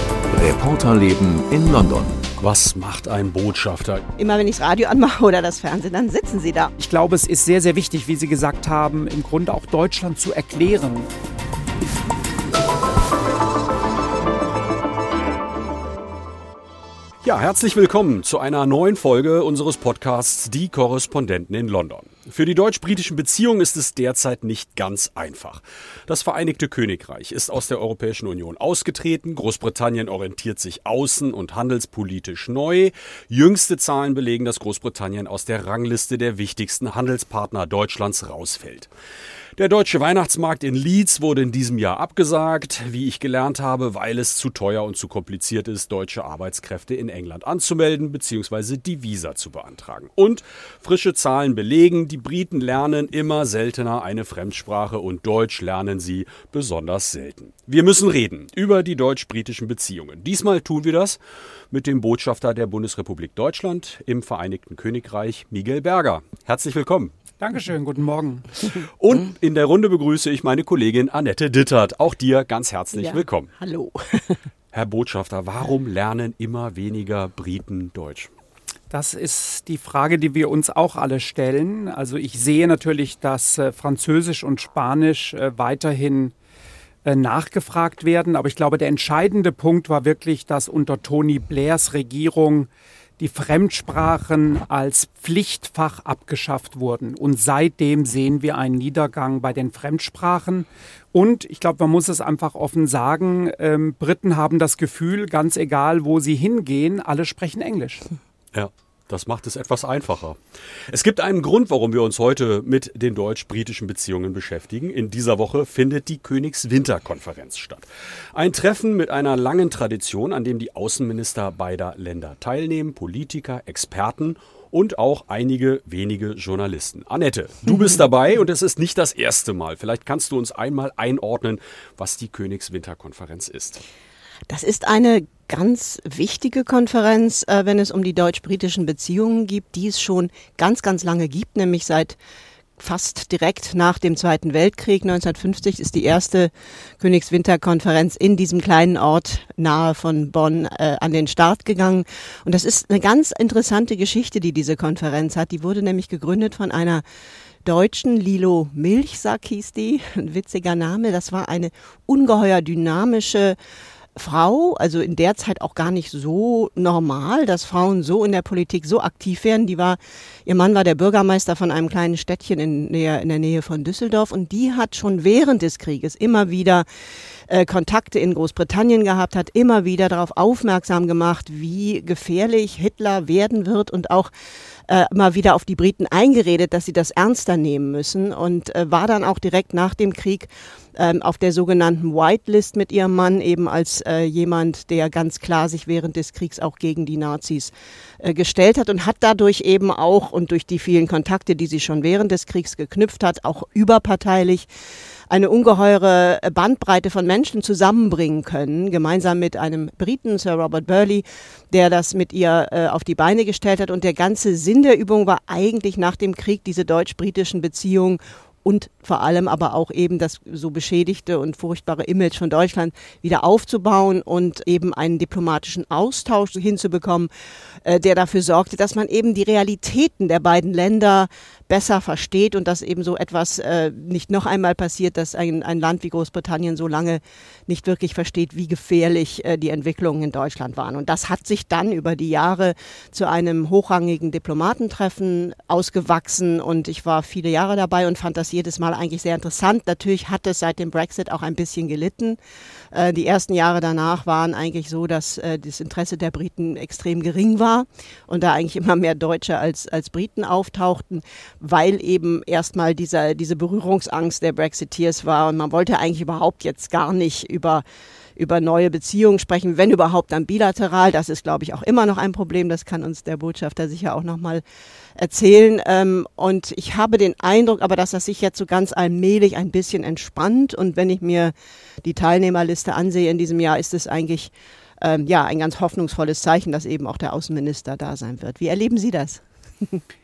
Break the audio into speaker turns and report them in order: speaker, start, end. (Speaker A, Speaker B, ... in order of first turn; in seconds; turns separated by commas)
Speaker A: 0.3-2.2, Speaker B: 2.4-4.0, Speaker C: 4.2-6.7, Speaker D: 6.8-11.1, Speaker B: 17.2-38.9, Speaker B: 39.6-61.2, Speaker B: 61.7-67.1, Speaker D: 67.4-68.5, Speaker B: 69.0-73.5, Speaker C: 73.0-74.4, Speaker B: 74.7-78.3, Speaker D: 78.9-86.3, Speaker D: 87.0-108.0, Speaker B: 108.5-110.4, Speaker B: 110.9-133.8, Speaker C: 134.5-142.2, Speaker C: 142.8-157.0, Speaker C: 157.6-163.6, Speaker C: 164.2-176.8, Speaker C: 177.5-184.3, Speaker C: 184.9-204.7, Speaker C: 205.3-227.3, Speaker C: 227.8-252.4, Speaker C: 252.9-267.8, Speaker C: 268.4-274.6, Speaker C: 275.2-290.0